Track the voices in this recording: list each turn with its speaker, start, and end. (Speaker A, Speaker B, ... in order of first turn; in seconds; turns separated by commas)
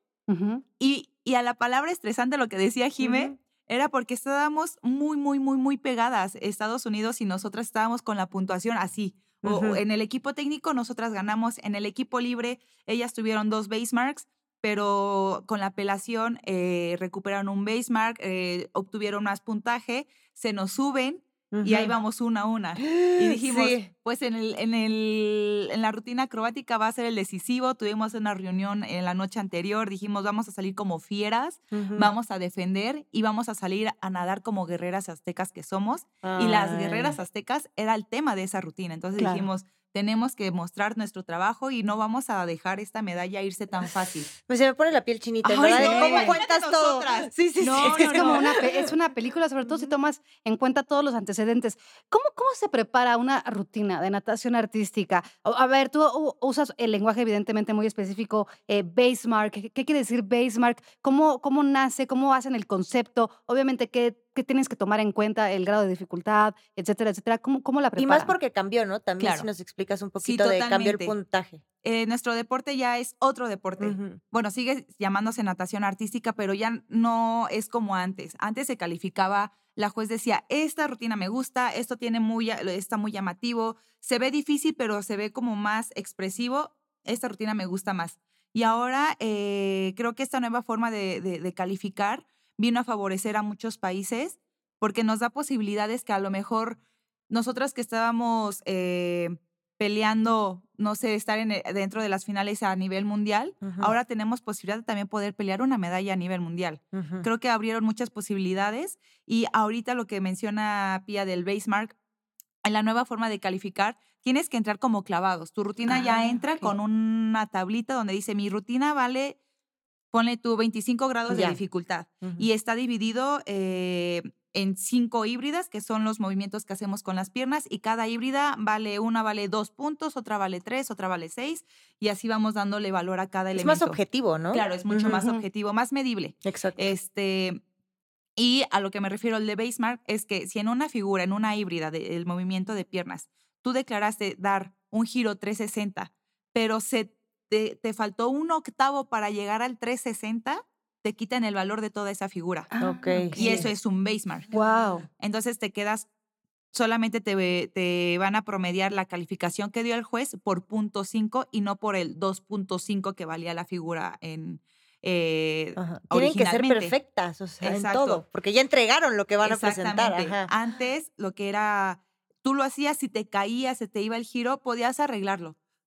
Speaker A: 0.3-0.6, Speaker B: 0.8-44.3, Speaker C: 3.0-3.3, Speaker C: 9.4-9.8, Speaker C: 21.5-21.9, Speaker C: 22.8-23.9, Speaker C: 31.7-32.1, Speaker C: 36.2-37.2, Speaker C: 39.2-39.5, Speaker C: 44.3-48.9, Speaker B: 45.4-48.5, Speaker A: 45.7-46.4, Speaker A: 48.0-68.3, Speaker C: 49.6-49.9, Speaker C: 68.0-71.6, Speaker B: 69.2-69.5, Speaker B: 70.2-71.1, Speaker B: 71.8-112.0, Speaker C: 73.8-74.2, Speaker C: 103.6-103.9, Speaker C: 106.9-107.2, Speaker B: 112.6-119.4, Speaker B: 120.1-134.0, Speaker C: 121.3-121.6, Speaker C: 122.2-122.5, Speaker C: 133.5-135.2, Speaker B: 134.5-137.6, Speaker A: 135.0-135.4, Speaker C: 136.4-136.9, Speaker B: 138.3-152.7, Speaker A: 152.7-153.7, Speaker C: 152.8-153.7, Speaker B: 153.3-154.5, Speaker A: 154.5-155.1, Speaker B: 155.2-156.1, Speaker B: 156.7-166.9, Speaker C: 165.8-170.5, Speaker B: 167.6-168.2, Speaker B: 169.4-175.6